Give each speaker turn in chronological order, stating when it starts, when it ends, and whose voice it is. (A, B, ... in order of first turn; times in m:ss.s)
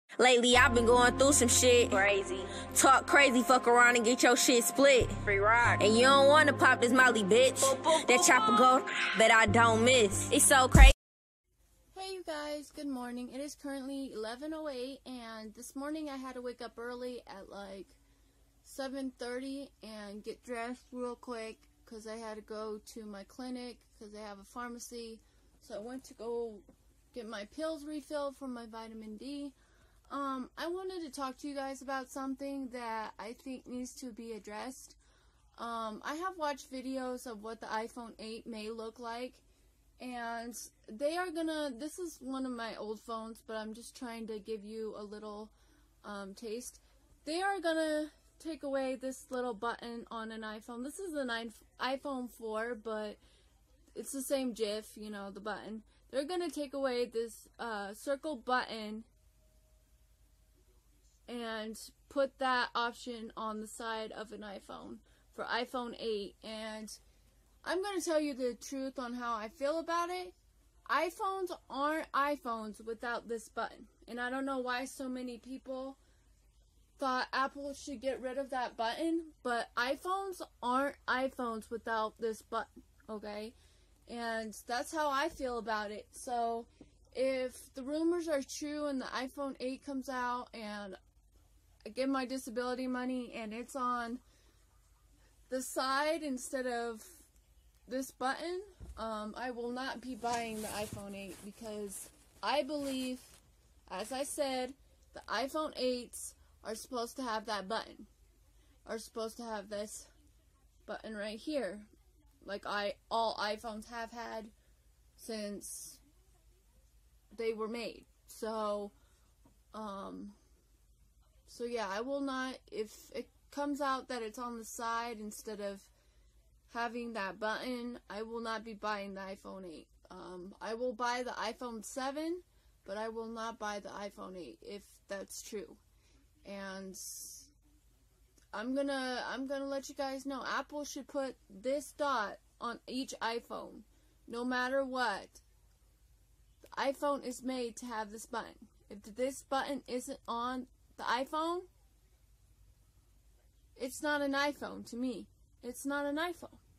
0:00.2-0:02.0 A
0:01.9-0:02.5 B
0:02.6-0:05.2 A
0:05.2-0:05.8 B
0:05.8-0:10.9 A
0:07.6-0:08.6 B
0:11.9-0:18.0 C
0:18.6-0:29.6 C
0:30.1-0:35.0 C
0:35.6-0:39.4 C
0:40.0-0:53.2 C
0:54.0-0:59.1 C
1:01.3-1:07.0 C
1:07.6-1:10.4 C
1:10.9-1:16.0 C
1:17.0-1:23.6 C
1:24.1-1:31.0 C
1:31.8-1:34.2 C
1:35.5-1:37.3 C
1:37.9-1:48.1 C
1:48.9-1:50.1 C
1:50.9-1:51.9 C
1:52.4-1:54.5 C
1:55.2-1:56.0 C
1:57.3-1:58.9 C
1:59.7-2:00.4 C
2:01.5-2:05.9 C
2:06.7-2:15.8 C
2:16.4-2:17.5 C
2:18.5-2:25.4 C
2:26.7-2:31.7 C
2:33.8-2:36.6 C